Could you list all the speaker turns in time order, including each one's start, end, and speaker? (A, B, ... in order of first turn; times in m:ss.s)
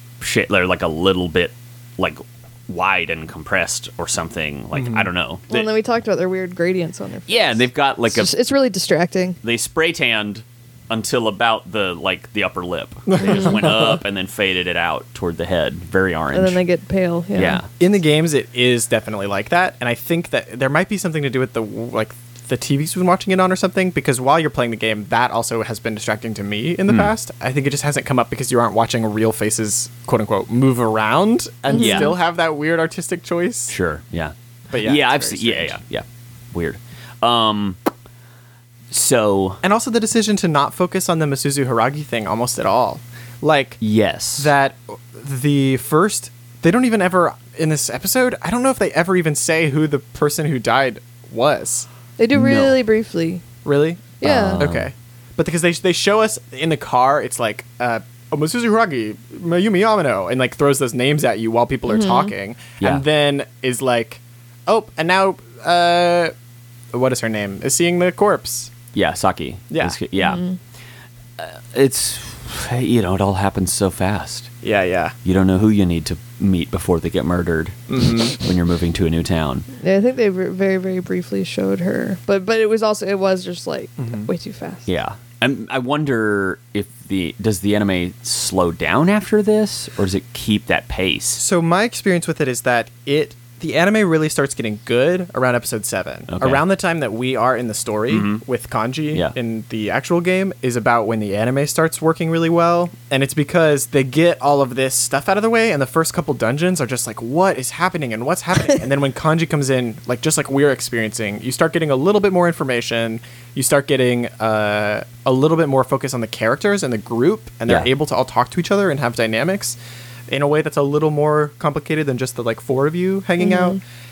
0:00.2-0:05.7 A
0:04.8-0:05.1 B
0:05.5-0:09.4 C
0:07.3-0:08.3 A
0:09.4-0:16.6 A
0:13.1-0:14.0 B
0:13.2-0:13.6 C
0:16.3-0:17.6 C
0:17.4-0:17.7 A
0:17.8-0:33.8 B
0:31.7-0:32.2 C
0:31.7-0:32.1 A
0:33.7-0:37.8 A
0:34.7-0:35.8 B
0:38.9-0:39.6 A
0:39.6-0:43.8 B
0:43.8-0:44.5 A
0:44.4-0:51.9 B
0:52.2-0:53.4 C
0:52.3-0:52.8 A
0:53.6-1:06.3 B
0:54.2-0:54.6 C
0:54.2-0:54.9 A
1:01.9-1:02.3 C
1:06.9-1:08.7 B
1:08.9-1:10.4 A
1:09.7-1:10.0 B
1:10.2-1:10.6 C
1:11.4-1:14.5 A
1:14.6-1:15.2 B
1:15.2-1:19.7 A
1:17.9-1:18.4 B
1:19.8-1:24.9 C
1:24.0-1:24.3 B
1:24.9-1:31.4 A
1:31.4-1:59.8 B
1:36.3-1:36.6 A
1:38.1-1:38.4 A
2:00.3-2:03.8 B
2:03.4-2:03.8 C